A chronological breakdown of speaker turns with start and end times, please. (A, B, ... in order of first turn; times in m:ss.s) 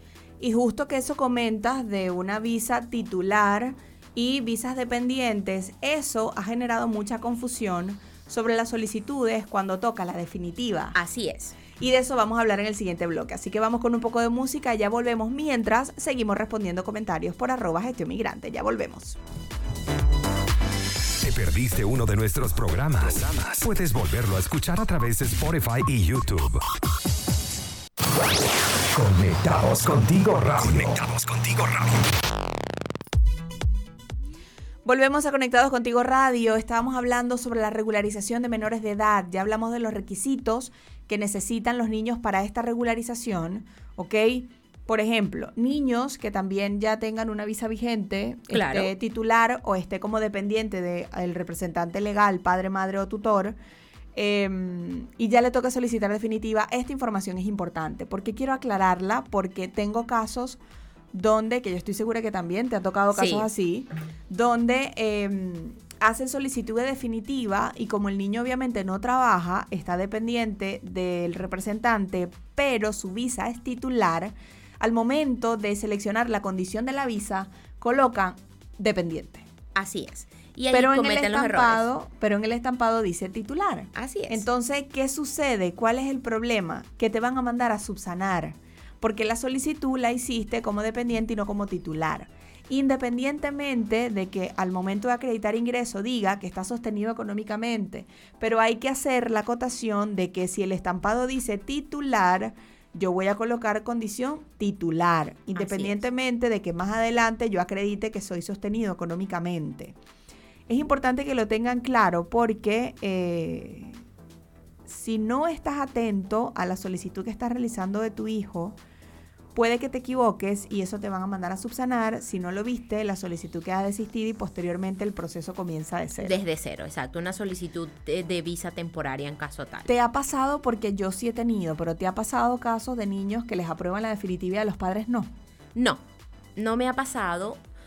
0:00.4-0:10.9 A
0:10.9-0:11.6 B
0:11.8-0:19.2 A
0:21.2-0:26.6 C
0:28.9-0:31.9 C
0:34.8-0:53.6 A
0:48.5-0:48.9 B
0:54.1-1:00.6 A
1:01.1-1:19.4 A
1:03.1-1:03.5 B
1:19.7-1:21.8 B
1:20.7-1:50.0 A
1:23.9-1:24.4 B
1:45.5-1:46.0 B
1:50.7-1:54.0 A
1:54.8-1:58.8 A
1:59.5-2:06.3 A
2:06.2-2:09.9 B
2:09.9-2:15.3 A
2:15.8-2:16.0 B
2:16.6-2:17.6 B